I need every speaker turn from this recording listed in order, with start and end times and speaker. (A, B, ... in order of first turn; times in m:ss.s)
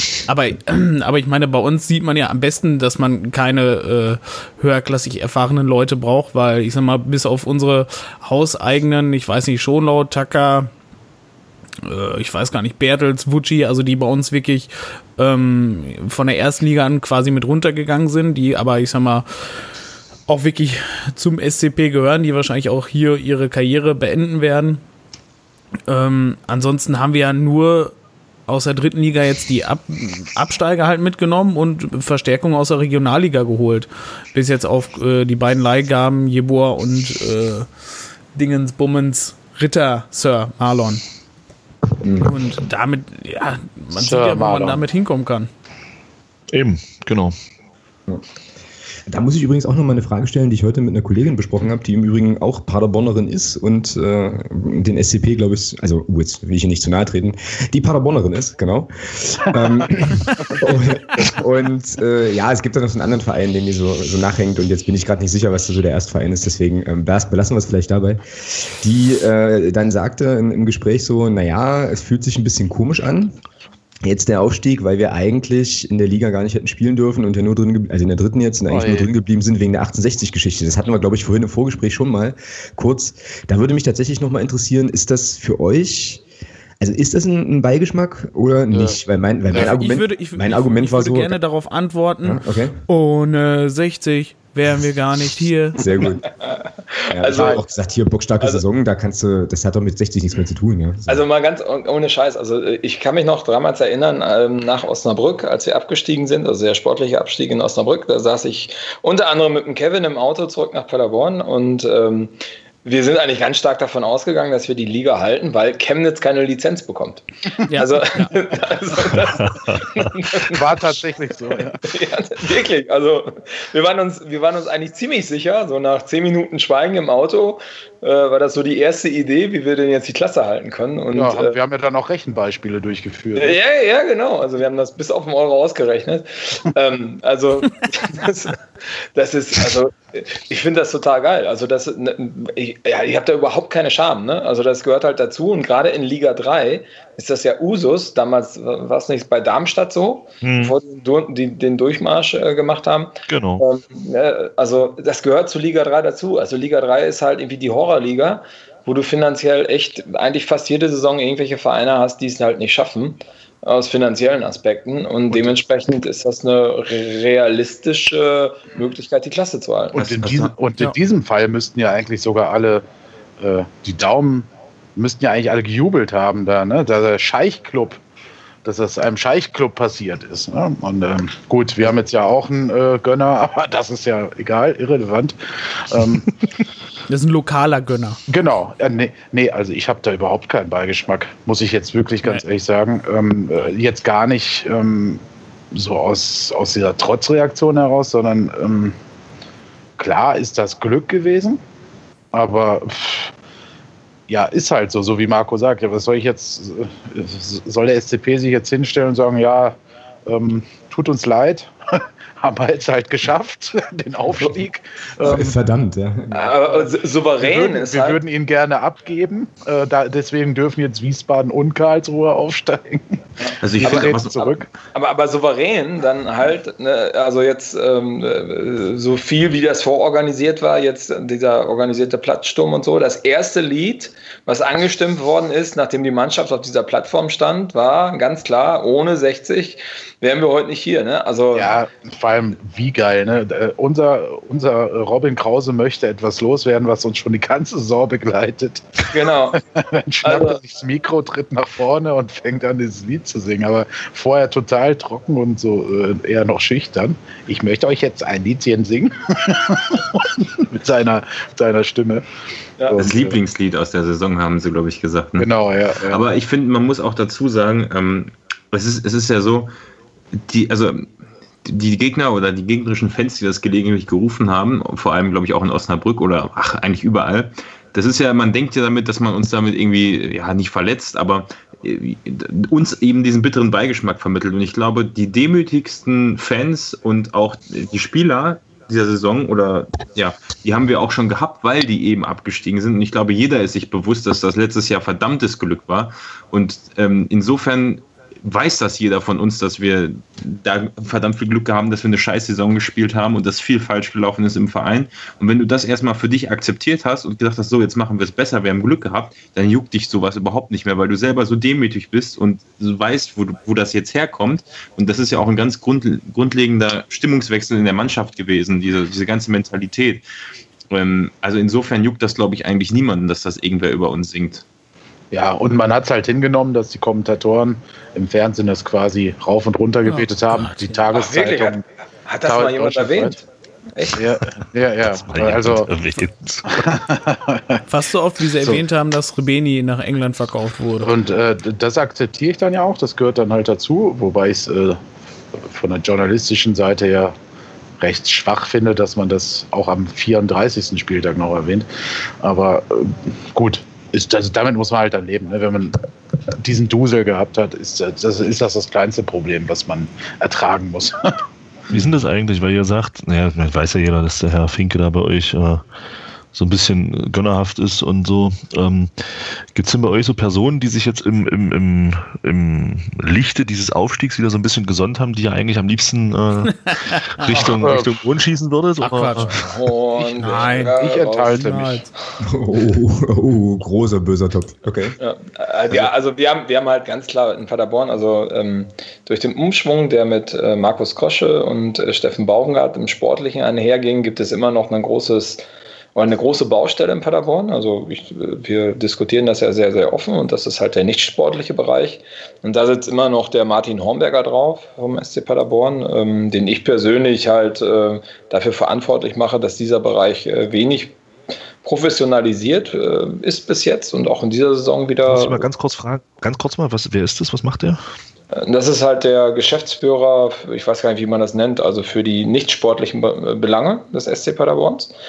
0:00.2-0:10.7 A
0:11.8-0:19.2 A
0:20.3-0:24.8 A
0:25.9-0:28.0 A
0:28.5-0:37.7 A
0:38.3-0:41.0 A
0:42.0-0:42.4 B
0:42.2-0:45.5 A
0:44.0-0:44.8 C
0:46.5-0:47.3 D
0:49.1-1:13.4 B
1:14.0-1:26.2 B
1:18.7-1:19.1 C
1:26.8-1:31.4 B
1:29.5-1:35.8 A
1:32.2-1:32.8 B
1:35.8-1:36.2 B
1:36.4-1:37.6 E
1:37.1-1:41.2 B
1:37.3-1:37.6 C
1:41.1-2:00.9 E
1:57.7-1:58.3 A
1:59.6-1:59.8 D
2:00.4-2:01.8 C
2:01.8-2:11.6 E
2:11.1-2:13.6 C
2:13.4-2:50.2 E
2:30.4-2:30.8 D
2:33.3-2:33.6 D
2:49.9-2:52.8 C
2:50.2-2:50.5 F
2:53.4-2:58.0 C
2:58.6-3:06.3 C
3:07.1-3:08.2 A
3:08.3-3:18.9 C
3:20.0-3:21.6 C
3:22.3-3:23.3 C
3:24.3-3:29.7 C
3:30.2-3:35.5 C
3:35.2-3:36.6 B
3:36.3-3:38.2 E
3:37.4-3:43.1 C
3:43.6-3:44.5 F
3:43.8-3:44.7 C
3:43.8-3:44.4 E
3:44.9-4:01.8 E
4:01.5-4:22.2 C
4:09.1-4:09.6 E
4:10.2-4:10.6 E
4:22.9-4:23.4 C
4:22.9-4:25.5 F
4:25.4-4:26.2 C
4:26.1-4:29.7 F
4:30.3-4:31.1 F
4:31.6-5:20.2 F
5:20.9-5:24.6 F
5:25.3-5:31.8 C
5:30.0-5:31.0 A
5:31.1-5:33.4 E
5:32.4-5:33.4 C
5:33.9-5:34.2 E
5:34.1-5:35.9 C
5:35.2-5:36.9 D
5:36.7-5:37.8 C
5:37.9-5:41.1 A
5:41.0-5:45.0 C
5:45.6-5:47.3 C
5:48.0-5:51.9 C
5:52.4-5:56.0 C
5:56.6-6:01.4 C
6:01.9-6:05.8 D
6:06.5-6:19.5 D
6:16.8-6:17.4 A
6:17.5-6:18.2 C
6:19.0-6:19.5 A
6:19.5-6:21.6 E
6:20.2-6:22.0 C
6:20.4-6:20.9 A
6:21.5-6:22.1 A
6:22.4-6:25.2 B
6:25.2-6:35.6 E
6:36.1-6:51.2 E
6:51.8-6:55.7 E
6:55.2-6:58.0 D
6:58.5-7:05.1 E